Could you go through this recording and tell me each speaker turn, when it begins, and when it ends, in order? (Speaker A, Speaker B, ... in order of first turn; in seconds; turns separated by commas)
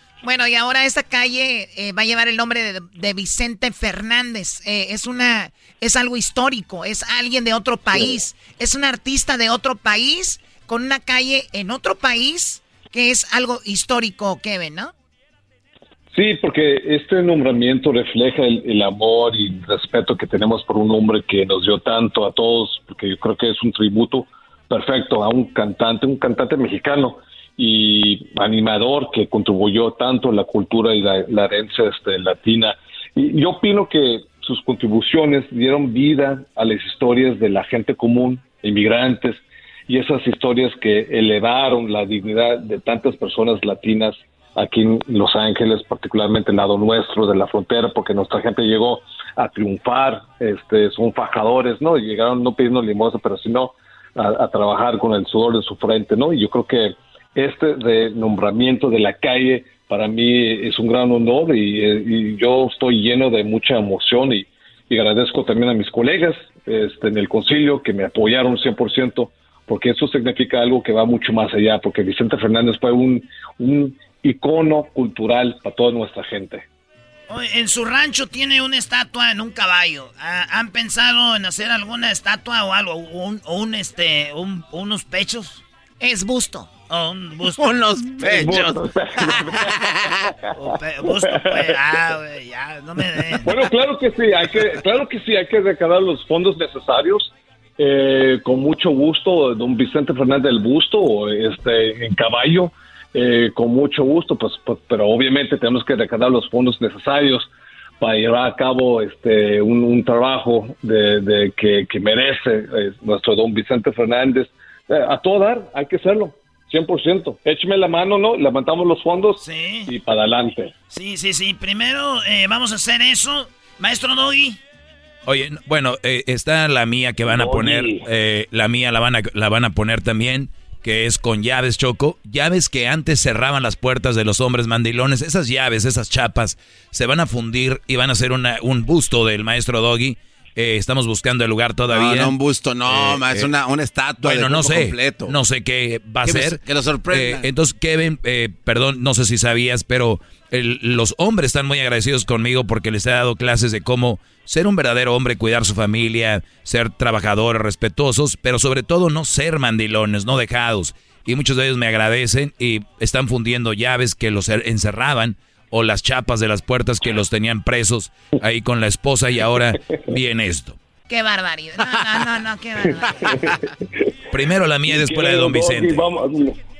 Speaker A: 0.2-14.9, Speaker B: 16.1-76.7, Speaker C: 77.3-85.6, Speaker A: 86.0-86.7, Speaker C: 86.9-88.8, Speaker D: 87.6-88.6, Speaker B: 88.2-89.8, Speaker D: 89.7-90.2, Speaker C: 90.6-93.5, Speaker B: 91.0-91.8, Speaker B: 93.2-107.5, Speaker B: 108.0-120.7, Speaker C: 119.4-119.9, Speaker C: 120.9-124.6, Speaker E: 125.2-142.3, Speaker B: 127.3-128.0, Speaker D: 141.9-145.3, Speaker E: 142.8-143.5, Speaker E: 144.2-170.8, Speaker D: 146.2-147.5, Speaker A: 171.1-173.3, Speaker B: 173.1-173.7, Speaker E: 174.3-176.1, Speaker B: 174.8-176.6